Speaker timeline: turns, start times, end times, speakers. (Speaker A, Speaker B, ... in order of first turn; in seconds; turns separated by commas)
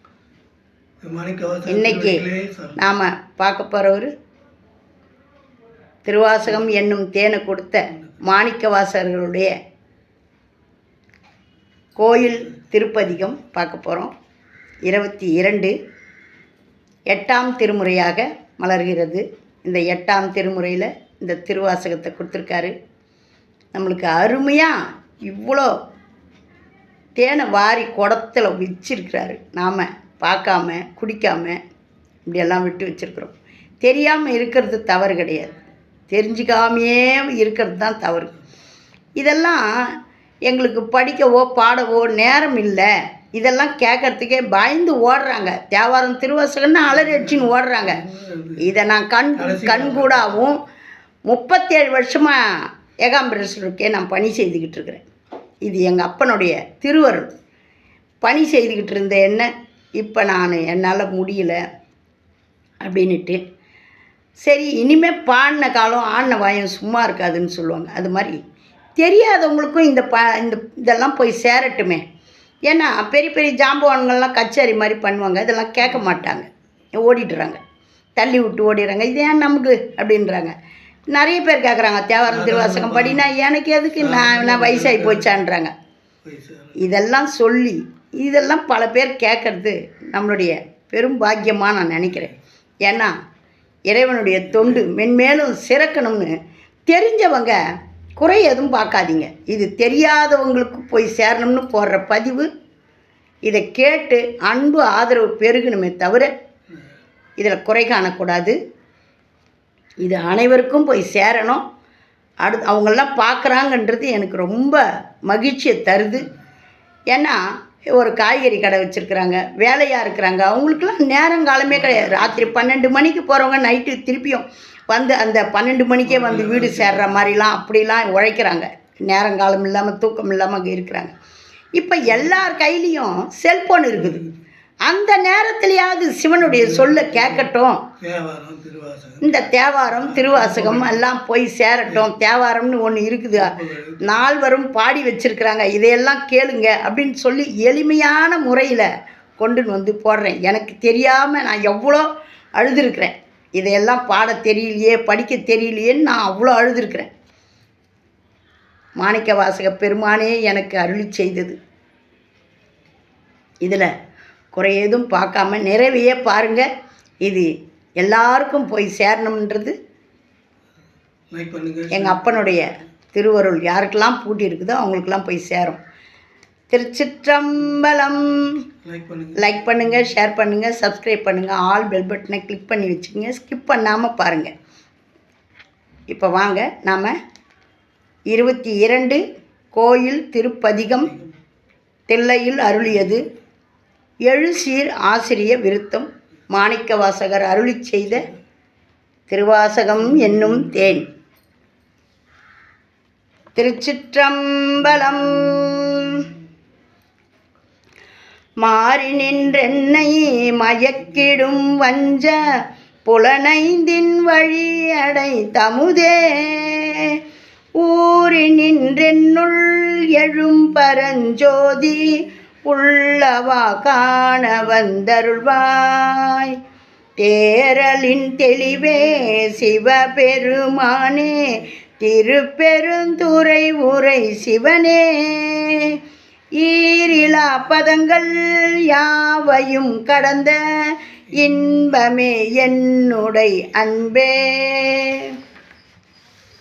Speaker A: 1.0-2.8, Speaker B: 1.6-4.1, Speaker B: 6.1-9.5, Speaker B: 12.0-14.1, Speaker B: 14.9-15.7, Speaker B: 17.1-22.7, Speaker B: 23.7-25.7, Speaker B: 27.2-31.6, Speaker B: 32.3-35.5, Speaker B: 36.1-38.3, Speaker B: 39.2-48.1, Speaker A: 48.1-48.5, Speaker B: 48.6-50.6, Speaker A: 49.6-49.9, Speaker B: 51.3-52.5, Speaker B: 53.0-55.0, Speaker B: 55.6-57.3, Speaker B: 58.2-61.6, Speaker B: 62.8-63.4, Speaker B: 64.4-68.4, Speaker B: 69.0-72.0, Speaker B: 72.7-76.5, Speaker B: 77.0-77.6, Speaker B: 78.2-80.5, Speaker B: 81.1-85.7, Speaker A: 82.5-83.2, Speaker A: 84.1-85.0, Speaker A: 86.3-86.8, Speaker B: 86.8-92.3, Speaker B: 92.8-93.1, Speaker B: 93.9-96.3, Speaker B: 96.9-97.6, Speaker B: 98.2-102.5, Speaker B: 103.5-106.3, Speaker B: 107.4-108.6, Speaker B: 110.0-111.7, Speaker B: 112.4-116.3, Speaker B: 117.1-117.4, Speaker B: 118.0-131.2, Speaker A: 126.5-126.8, Speaker B: 131.8-134.2, Speaker B: 134.9-137.9, Speaker A: 138.0-139.3, Speaker B: 139.2-157.1, Speaker A: 140.3-141.0, Speaker B: 159.0-161.6, Speaker B: 164.6-166.7, Speaker B: 167.2-169.8, Speaker A: 171.3-172.5, Speaker B: 171.9-175.8, Speaker B: 176.7-178.6, Speaker A: 178.9-179.4, Speaker B: 179.4-184.5, Speaker B: 186.1-187.1, Speaker B: 188.3-189.2, Speaker B: 189.7-191.2, Speaker B: 192.1-193.2, Speaker B: 194.3-198.3, Speaker B: 199.3-201.1, Speaker B: 203.6-206.3, Speaker B: 208.6-217.2, Speaker B: 217.8-226.6, Speaker B: 227.2-236.0, Speaker B: 236.6-240.7, Speaker B: 241.3-245.3